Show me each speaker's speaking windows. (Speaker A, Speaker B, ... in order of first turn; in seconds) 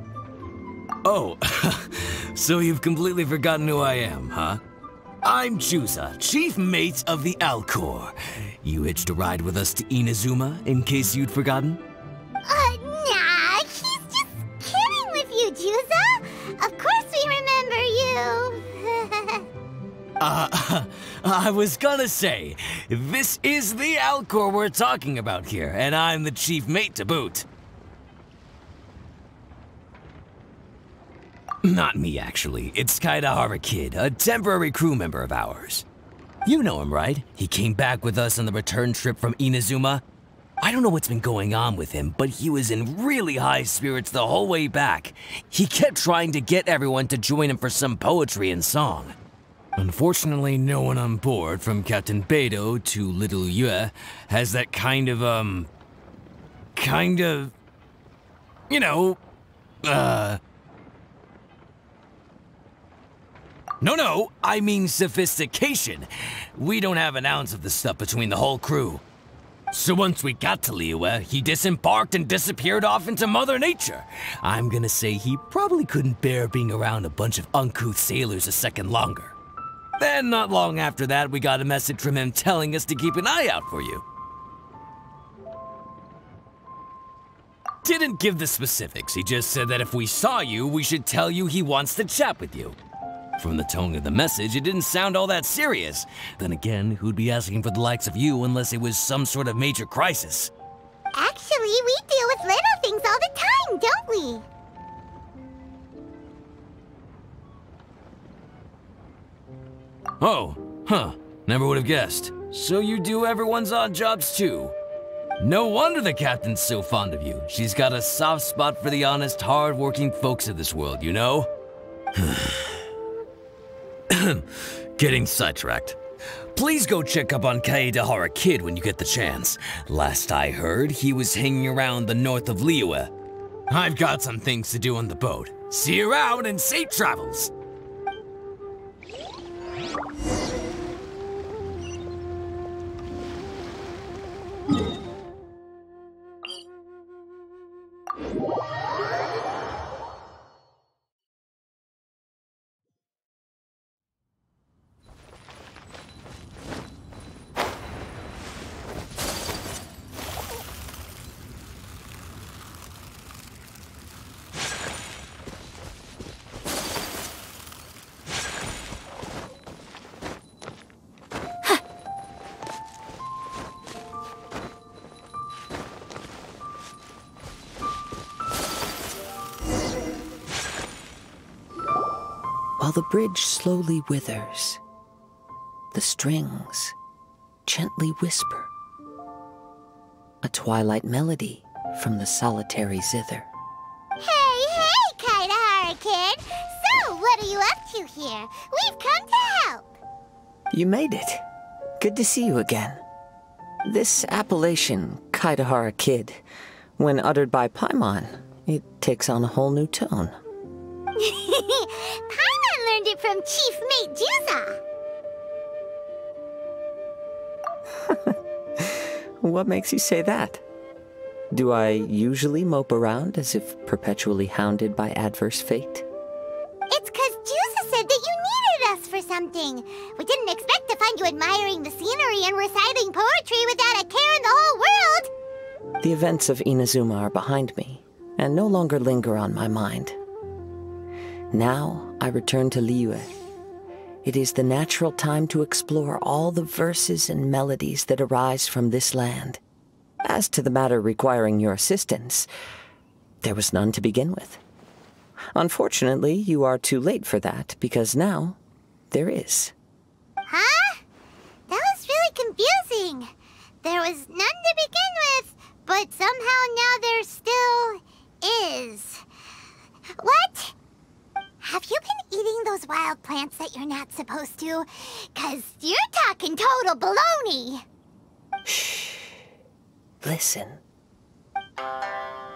Speaker A: 1.0-4.6, 5.2-11.8, 20.2-27.5, 31.6-35.8, 36.4-40.0, 40.6-49.1, 49.8-55.7, 56.8-57.5, 58.7-59.2, 59.8-60.4, 63.8-69.0, 69.7-79.3, 80.0-84.0, 87.8-92.8, 93.4-100.5, 110.2-114.7, 115.4-121.5, 122.1-122.8, 124.1-126.0, 126.5-133.1, 133.7-137.5
Speaker B: 12.4-19.4, 101.1-104.4, 194.2-199.9, 211.2-214.8, 226.9-235.3, 260.5-261.0, 261.7-263.3, 263.8-269.2, 270.1-270.7, 271.6-277.8
Speaker C: 182.8-184.8, 185.9-186.9, 187.7-188.7, 190.4-193.5, 200.7-201.4, 202.0-203.0, 203.8-206.4, 207.0-210.3, 218.1-220.6, 221.5-226.1, 236.0-240.2, 241.5-243.3, 244.2-249.6, 250.2-252.5, 253.4-254.6, 255.5-258.6, 259.1-259.7, 278.6-279.3, 280.2-280.8